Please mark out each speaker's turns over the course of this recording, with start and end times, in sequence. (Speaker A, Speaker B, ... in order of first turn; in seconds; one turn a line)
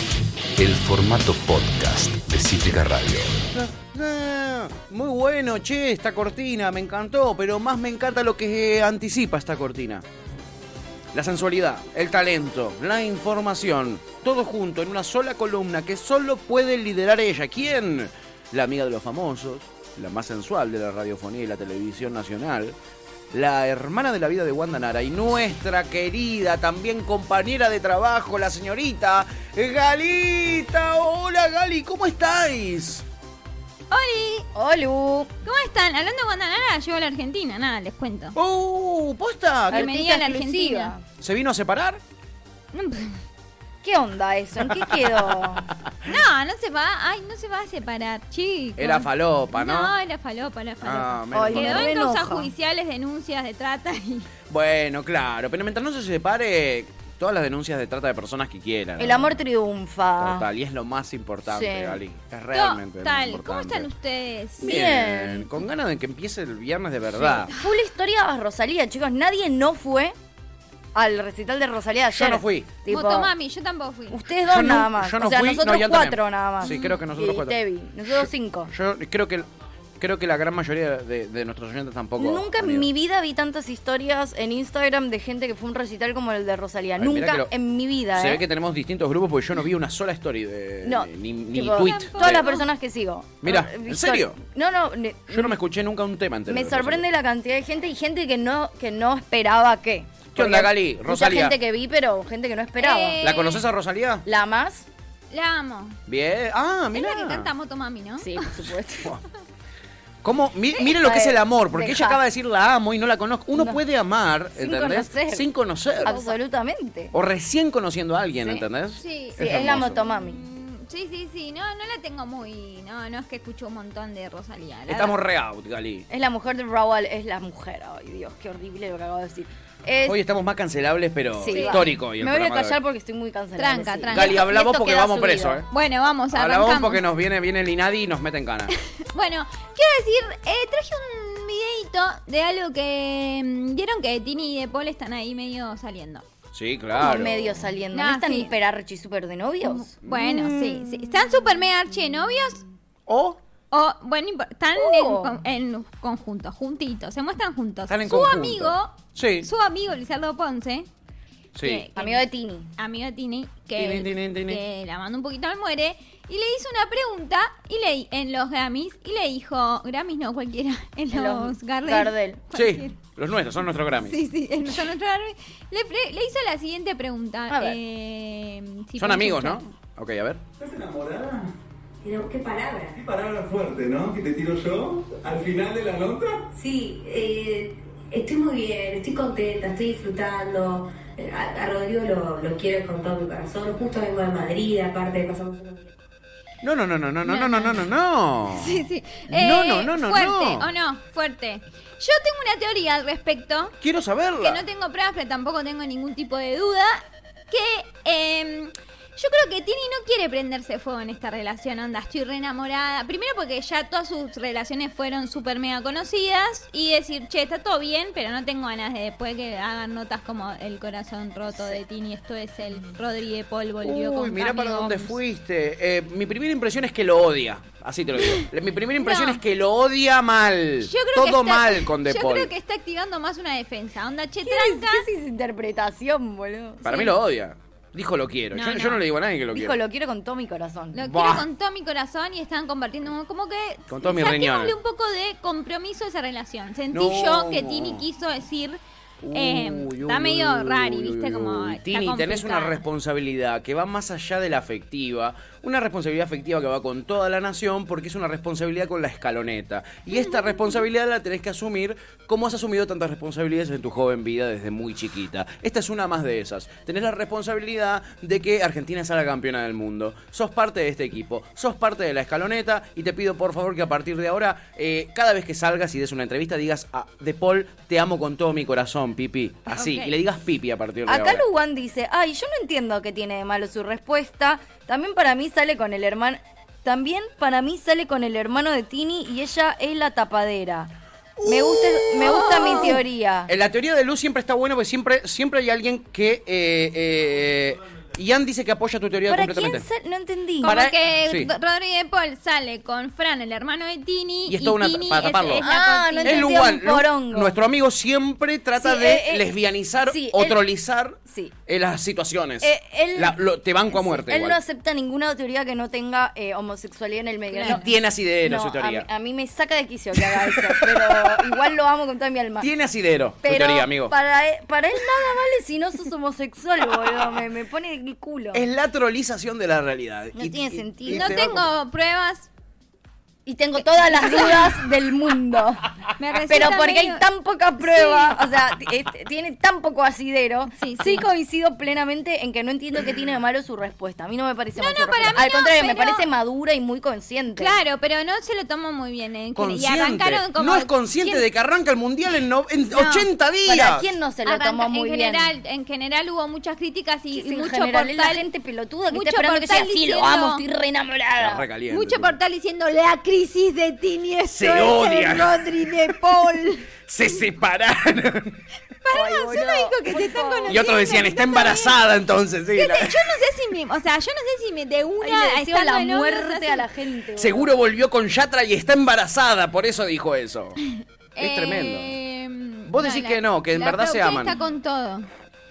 Speaker A: 0.6-3.3
Speaker B: 3.5-10.0
Speaker B: 11.1-22.8
Speaker B: 23.3-33.0
Speaker C: 33.9-34.5
Speaker D: 34.5-35.3
Speaker C: 35.4-38.4
Speaker B: 38.3-39.9
Speaker D: 39.7-41.0
Speaker C: 39.7-40.9
Speaker B: 41.2-42.0
Speaker C: 42.7-43.2
Speaker D: 43.8-45.7
Speaker B: 44.8-46.1
Speaker C: 46.0-54.3
Speaker B: 48.8-49.9
Speaker B: 50.8-51.9
Speaker D: 51.3-52.5
Speaker B: 54.5-59.4
Speaker D: 59.0-60.5
Speaker B: 60.2-63.9
Speaker D: 61.5-62.0
Speaker C: 62.5-64.7
Speaker D: 64.6-65.5
Speaker B: 64.6-67.5
Speaker D: 67.1-70.1
Speaker D: 70.9-73.3
Speaker B: 72.1-72.7
Speaker C: 72.9-74.2
Speaker D: 74.1-78.7
Speaker B: 74.5-79.5
Speaker C: 76.6-77.0
Speaker B: 80.0-82.9
Speaker D: 82.2-88.4
Speaker B: 87.0-87.5
Speaker B: 88.1-92.5
Speaker D: 90.8-95.5
Speaker C: 91.8-92.6
Speaker B: 93.4-94.4
Speaker B: 95.3-97.0
Speaker D: 96.5-103.2
Speaker B: 100.3-101.6
Speaker C: 102.8-103.6
Speaker B: 103.2-104.2
Speaker D: 104.2-104.8
Speaker C: 105.3-106.0
Speaker B: 106.1-107.5
Speaker C: 106.9-108.4
Speaker D: 108.2-109.1
Speaker B: 110.2-116.1
Speaker D: 110.9-112.2
Speaker D: 113.5-113.8
Speaker D: 114.5-115.4
Speaker D: 116.0-117.1
Speaker C: 116.0-116.3
Speaker B: 117.1-120.1
Speaker C: 119.0-119.4
Speaker D: 119.4-120.4
Speaker C: 120.0-125.2
Speaker B: 124.9-126.1
Speaker D: 126.1-130.2
Speaker B: 130.0-132.8
Speaker D: 131.4-135.6
Speaker C: 131.5-131.8
Speaker C: 133.6-134.4
Speaker B: 134.1-135.7
Speaker C: 135.7-137.0
Speaker B: 136.3-138.7
Speaker C: 139.0-146.2
Speaker B: 146.5-147.7
Speaker D: 147.0-151.2
Speaker C: 147.9-148.5
Speaker C: 149.7-152.6
Speaker B: 150.0-150.4
Speaker B: 153.1-153.4
Speaker C: 153.7-160.9
Speaker D: 154.8-155.3
Speaker B: 157.9-159.5
Speaker B: 161.5-161.8
Speaker C: 161.6-172.9
Speaker D: 161.9-162.7
Speaker B: 163.8-164.6
Speaker D: 171.1-172.4
Speaker B: 172.5-174.2
Speaker C: 174.0-179.7
Speaker D: 177.5-177.8
Speaker B: 179.0-180.4
Speaker E: 180.6-181.5
Speaker F: 182.0-183.0
Speaker E: 182.9-186.4
Speaker F: 186.5-195.9
Speaker B: 196.6-200.7
Speaker C: 197.2-197.9
Speaker C: 198.5-203.7
Speaker B: 203.8-204.6
Speaker C: 204.4-225.2
Speaker B: 223.8-232.5
Speaker C: 229.0-229.4
Speaker C: 230.8-235.0
Speaker D: 234.4-236.8
Speaker B: 236.8-239.8
Speaker C: 236.8-237.1
Speaker C: 238.5-239.0
Speaker D: 239.5-241.0
Speaker C: 240.9-248.8
Speaker B: 241.0-241.4
Speaker B: 243.9-244.8
Speaker B: 246.9-248.0
Speaker B: 249.2-281.4
Speaker C: 249.3-252.8
Speaker C: 260.1-260.8
Speaker C: 279.7-280.1
Speaker D: 281.1-290.9
Speaker B: 291.4-299.8
Speaker D: 291.4-293.5
Speaker C: 292.2-293.0
Speaker D: 299.3-300.7
Speaker C: 300.6-306.6
Speaker B: 300.6-301.5
Speaker B: 304.5-305.6
Speaker D: 305.6-307.6
Speaker B: 306.2-314.6
Speaker D: 308.8-309.4
Speaker D: 310.1-310.6
Speaker D: 311.3-311.5
Speaker D: 312.6-317.9
Speaker C: 317.5-317.8
Speaker B: 317.6-319.1
Speaker D: 318.4-322.7
Speaker B: 320.2-321.6
Speaker B: 322.6-324.1
Speaker D: 323.4-328.6
Speaker B: 327.0-327.4
Speaker B: 328.5-331.6
Speaker D: 330.3-331.3
Speaker C: 331.1-332.5
Speaker D: 333.4-335.9
Speaker C: 334.0-334.7
Speaker C: 336.2-337.2
Speaker D: 336.5-347.7
Speaker C: 337.8-338.4
Speaker C: 340.7-341.3
Speaker C: 344.8-346.2
Speaker C: 347.6-350.9
Speaker B: 349.6-354.1
Speaker C: 352.9-353.3
Speaker D: 353.6-355.5
Speaker C: 354.4-358.4
Speaker D: 357.3-361.6
Speaker C: 359.1-360.6
Speaker B: 361.4-362.3
Speaker C: 361.9-366.9
Speaker B: 364.5-366.1
Speaker B: 367.1-368.6
Speaker C: 369.0-372.0
Speaker D: 369.1-371.1
Speaker B: 370.7-373.4
Speaker C: 372.7-376.9
Speaker D: 375.2-377.7
Speaker B: 377.4-380.8
Speaker C: 381.4-385.3
Speaker B: 381.4-382.1
Speaker B: 382.9-384.6